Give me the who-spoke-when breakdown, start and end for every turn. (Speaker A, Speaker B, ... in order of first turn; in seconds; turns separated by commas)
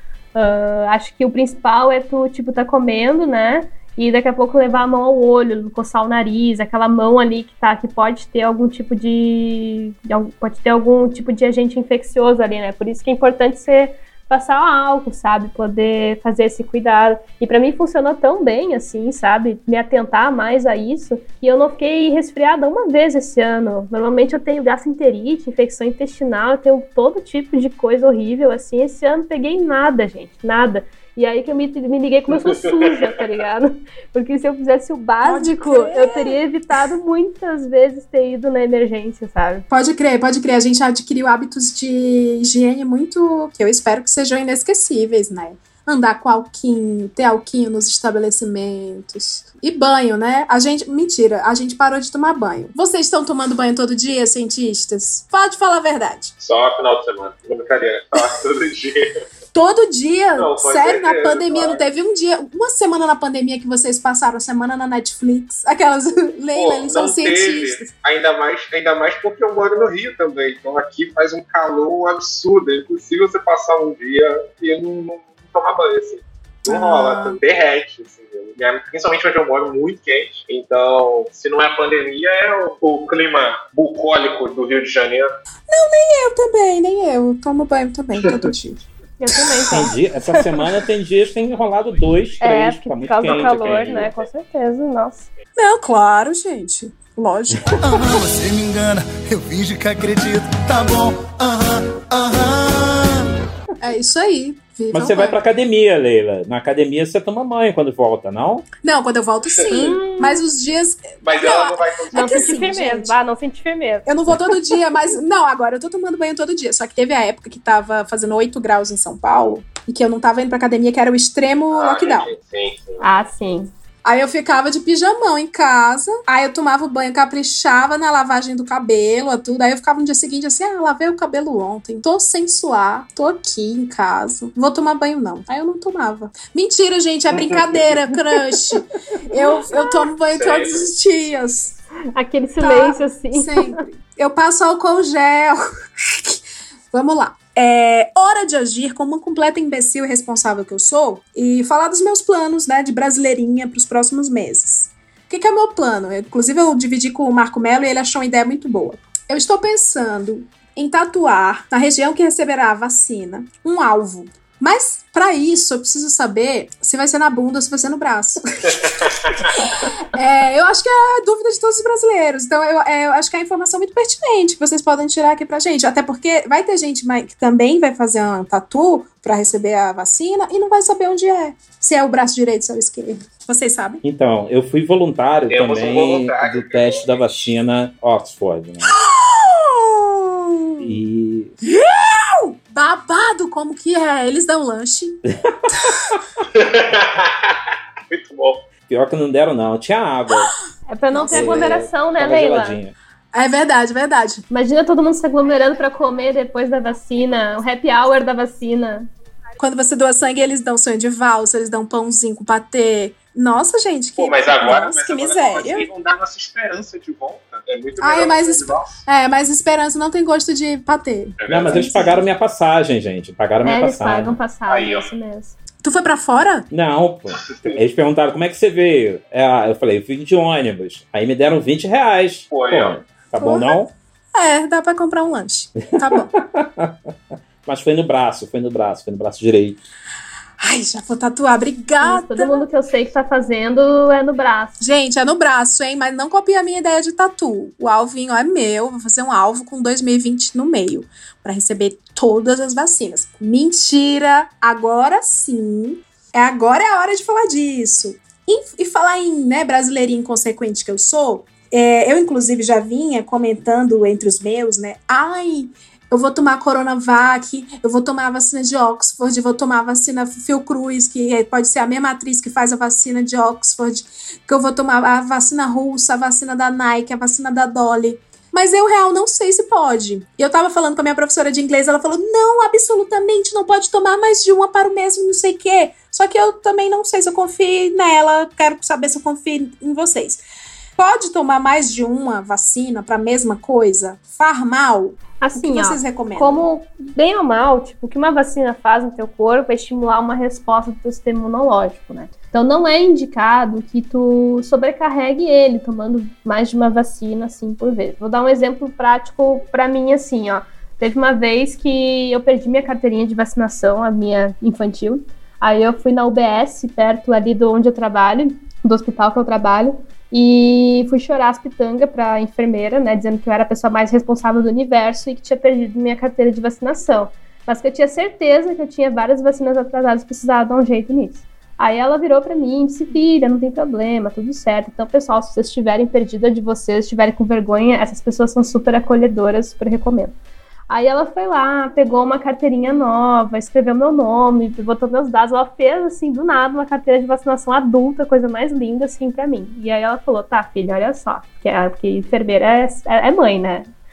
Speaker A: 0.3-39.7, Speaker B: 35.2-36.4, Speaker B: 39.7-56.3, Speaker C: 56.4-59.1, Speaker B: 59.5-67.9, Speaker C: 60.4-61.9, Speaker C: 66.5-85.3, Speaker B: 76.7-77.4, Speaker B: 85.7-88.8, Speaker A: 89.2-90.0, Speaker B: 89.3-90.7, Speaker D: 89.7-94.1, Speaker A: 92.4-95.3, Speaker C: 93.3-94.0, Speaker B: 95.6-98.0, Speaker E: 97.8-103.3, Speaker B: 103.8-105.4, Speaker D: 104.9-108.7, Speaker B: 108.8-113.2, Speaker C: 109.5-109.9, Speaker A: 109.7-110.4, Speaker C: 111.2-112.6, Speaker A: 112.1-114.1, Speaker B: 114.1-122.3, Speaker C: 121.7-123.0, Speaker A: 123.0-123.7, Speaker B: 124.0-141.8, Speaker C: 140.3-140.8, Speaker A: 142.1-143.8, Speaker B: 142.6-184.0, Speaker C: 168.7-169.5, Speaker D: 184.0-189.0, Speaker C: 185.5-187.4, Speaker B: 188.8-191.0, Speaker D: 190.8-191.5, Speaker B: 191.7-195.2, Speaker D: 195.4-196.2, Speaker C: 196.5-197.6, Speaker C: 198.1-198.6, Speaker D: 198.9-200.6, Speaker A: 200.9-202.8, Speaker B: 201.1-201.8, Speaker D: 201.3-202.9, Speaker B: 203.3-204.4, Speaker A: 204.5-209.1, Speaker B: 209.6-215.9, Speaker C: 214.2-219.0, Speaker B: 218.0-222.2, Speaker C: 221.4-221.9, Speaker D: 221.5-224.4, Speaker A: 223.6-225.6, Speaker C: 224.7-225.1, Speaker B: 225.8-226.7, Speaker D: 226.7-233.9, Speaker C: 227.4-227.8, Speaker C: 232.5-233.0, Speaker B: 233.4-233.8, Speaker B: 234.3-236.3, Speaker D: 236.0-237.0, Speaker D: 237.7-239.8, Speaker B: 240.6-242.6, Speaker A: 242.0-244.8, Speaker B: 244.8-290.4, Speaker B: 291.0-296.7, Speaker A: 295.4-340.3, Speaker A: 340.9-353.9